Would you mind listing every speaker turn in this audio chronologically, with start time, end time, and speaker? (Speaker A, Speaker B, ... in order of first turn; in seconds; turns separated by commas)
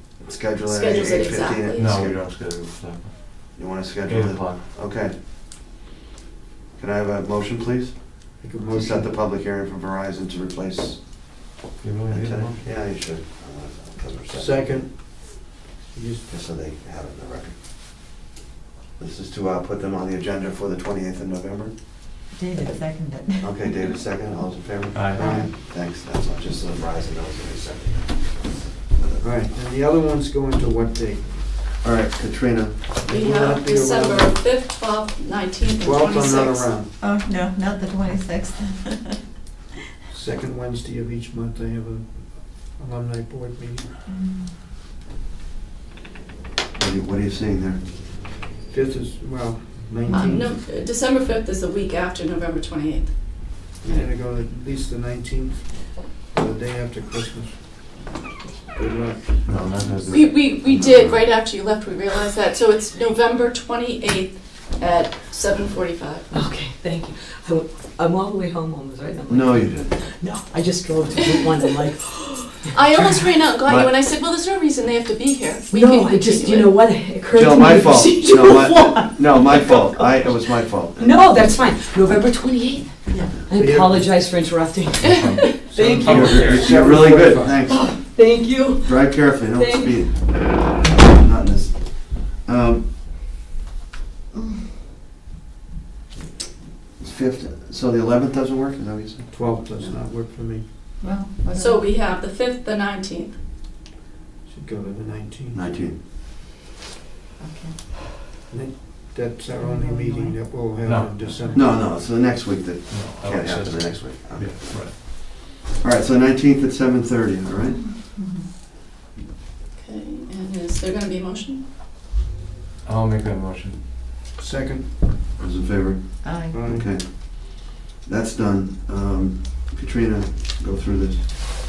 Speaker A: 0.2-2.2, Speaker B: 0.6-1.9, Speaker C: 1.8-4.6, Speaker A: 3.5-5.1, Speaker A: 6.8-11.3, Speaker D: 8.4-9.1, Speaker C: 11.8-12.6, Speaker A: 12.1-14.8, Speaker D: 14.3-16.3, Speaker A: 16.3-17.6, Speaker A: 19.0-21.7, Speaker E: 22.3-23.9, Speaker A: 23.4-29.3, Speaker C: 24.9-25.2, Speaker D: 25.1-25.5, Speaker D: 29.2-31.7, Speaker A: 31.8-32.9, Speaker D: 33.0-34.4, Speaker B: 33.1-36.7, Speaker D: 35.8-36.9, Speaker E: 37.0-39.2, Speaker D: 40.1-43.9, Speaker E: 44.1-44.5, Speaker A: 46.8-47.8, Speaker D: 48.7-50.6, Speaker B: 50.1-53.1, Speaker E: 50.1-50.4, Speaker D: 53.8-58.1, Speaker D: 58.7-59.8, Speaker C: 59.5-60.3, Speaker A: 59.5-61.3, Speaker B: 60.1-66.3, Speaker F: 66.3-73.4, Speaker A: 69.3-70.0, Speaker B: 71.3-71.6, Speaker B: 72.7-76.7, Speaker A: 73.6-73.9, Speaker F: 75.7-90.0, Speaker A: 77.3-81.7, Speaker E: 83.1-83.4, Speaker D: 83.5-84.1, Speaker C: 85.1-87.0, Speaker D: 85.5-87.6, Speaker A: 86.1-87.9, Speaker A: 88.8-92.8, Speaker A: 97.0-99.3, Speaker D: 99.3-100.7, Speaker E: 101.0-101.8, Speaker B: 101.5-103.4, Speaker D: 104.5-105.6, Speaker A: 105.5-106.0, Speaker E: 107.4-107.8, Speaker D: 108.5-111.7, Speaker E: 109.5-110.5, Speaker C: 110.8-111.3, Speaker E: 111.3-111.7, Speaker A: 111.5-117.9, Speaker C: 112.9-114.9, Speaker E: 117.7-118.5, Speaker B: 119.7-121.6, Speaker C: 122.8-123.8, Speaker D: 124.4-125.0, Speaker A: 125.4-131.2, Speaker E: 126.2-126.6, Speaker D: 126.5-126.9